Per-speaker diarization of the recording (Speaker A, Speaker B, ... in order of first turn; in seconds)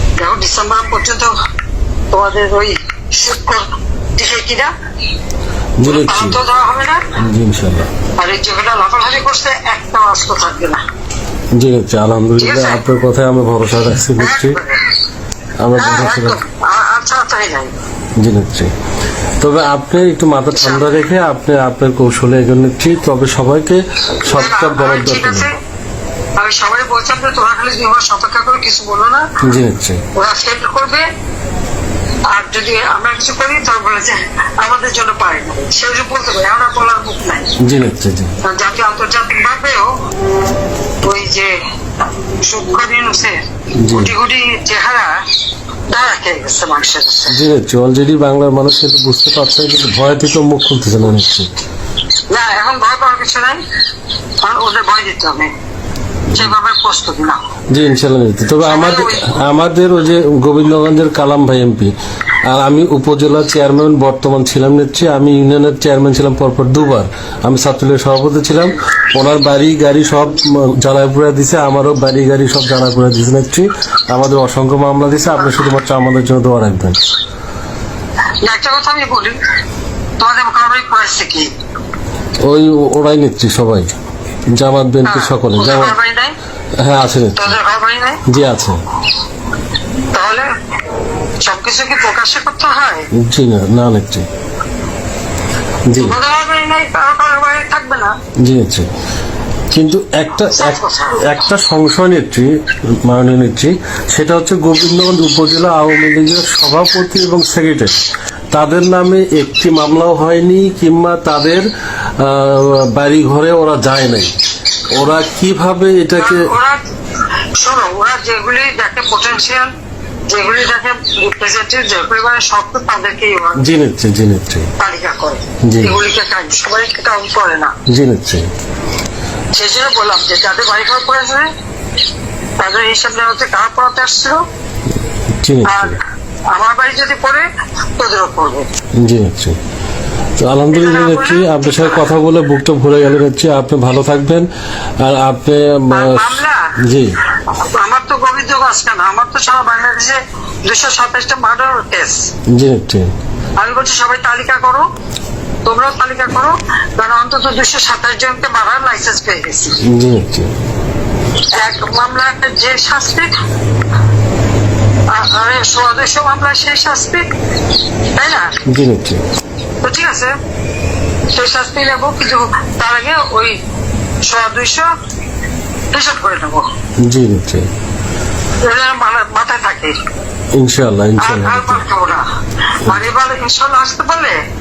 Speaker A: 0.2-1.3, 2.1-3.7, 4.2-4.7, 5.8-7.0, 8.2-10.8, 12.4-12.8, 14.2-14.9, 15.8-17.7, 20.5-20.9, 24.3-25.5, 26.4-29.3, 30.1-31.1, 32.3-37.5, 38.4-39.9, 41.0-41.5, 42.4-45.2, 45.9-47.4, 52.3-53.6, 54.4-55.5, 56.3-57.4, 58.6-59.3, 78.5-79.4, 80.2-81.5, 85.0-86.3, 87.3-88.2, 90.1-90.5, 91.4-93.1, 96.0-98.1, 100.5-101.3, 116.2-116.8, 117.6-119.7, 120.3-123.6, 124.8-127.7, 129.5-131.5, 132.6-134.4, 135.7-137.4, 138.0-138.7, 140.7-142.1, 145.9-146.6, 147.5-152.2, 153.6-154.9, 155.7-159.8, 161.6-163.3, 165.1-167.2, 168.2-168.6, 169.8-170.3, 171.3-173.5, 174.2-174.9, 175.9-176.7, 178.6-180.0, 181.2-182.2, 182.8-184.4
Speaker B: 5.8-6.4, 7.2-7.9, 11.5-14.6, 15.6-16.4, 18.2-18.7, 19.4-25.5, 29.4-30.0, 37.6-38.3, 43.8-44.1, 47.3-51.5, 57.7-77.0, 82.4-83.9, 84.5-86.0, 86.8-87.6, 88.2-88.8, 93.1-94.3, 95.9-96.2, 98.4-98.9, 99.7-102.5, 103.0-111.7, 112.2-114.3, 114.9-116.5, 123.6-124.7, 125.7-126.0, 127.9-128.5, 135.4-136.0, 139.0-139.6, 140.4-144.5, 145.0-147.1, 152.5-153.1, 159.9-160.5, 168.7-169.2, 177.0-177.7, 180.5-181.8